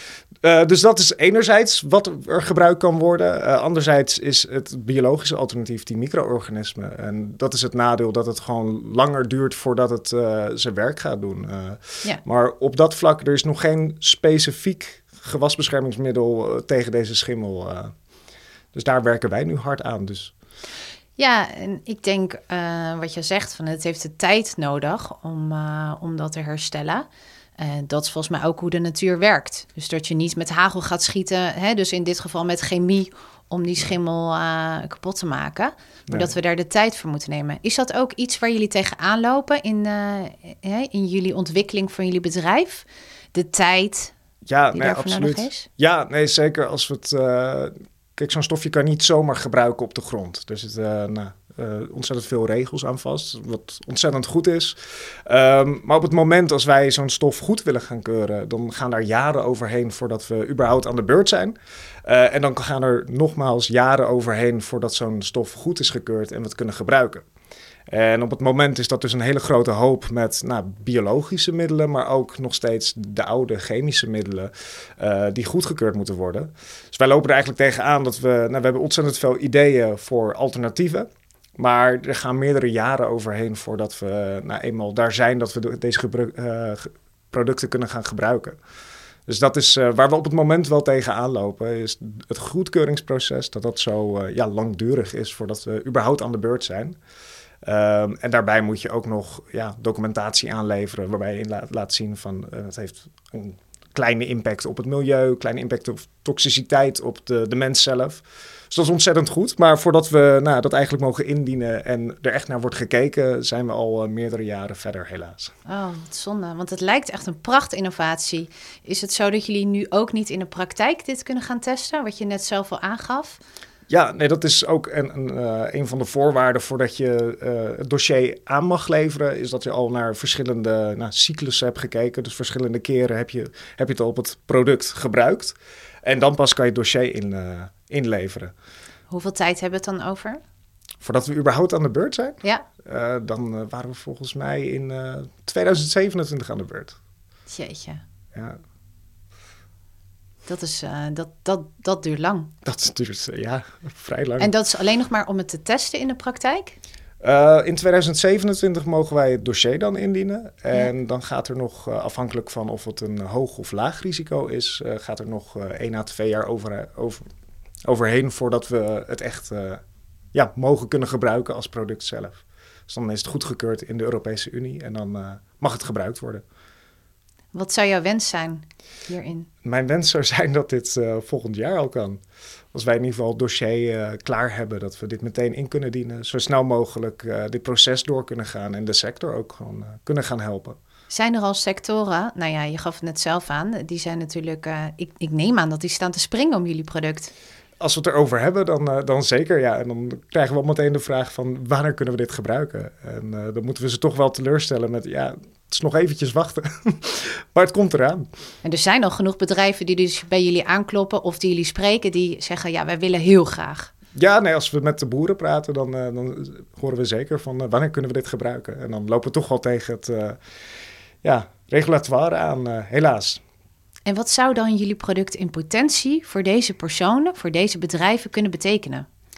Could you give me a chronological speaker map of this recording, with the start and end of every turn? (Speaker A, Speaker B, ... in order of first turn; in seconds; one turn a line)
Speaker A: 0.4-17.9
Speaker A: 18.7-20.3
Speaker B: 21.2-27.1
Speaker B: 27.6-44.1
Speaker A: 36.1-36.3
Speaker A: 44.5-67.2
Speaker B: 44.7-45.6
Speaker A: 67.9-81.1
Speaker A: 81.6-88.6
Speaker A: 89.3-97.0
Speaker A: 97.6-115.5
Speaker B: 115.7-123.4
Speaker A: 123.9-138.5
Speaker B: 139.1-140.4
Speaker A: 141.0-146.9
Speaker B: 147.5-148.0
Speaker B: 150.4-152.5
Speaker A: 152.6-154.5
Speaker B: 154.4-156.8
Speaker A: 157.2-167.2
Speaker A: 167.8-169.8
Speaker A: 170.3-176.4
Speaker B: 177.5-179.5
Speaker A: 179.6-182.2
Speaker A: 182.7-190.8
Speaker B: 191.1-197.3
Speaker A: 197.8-208.3
Speaker B: 208.6-213.9
Speaker A: 214.2-220.4
Speaker A: 221.2-223.4
Speaker B: 224.1-229.1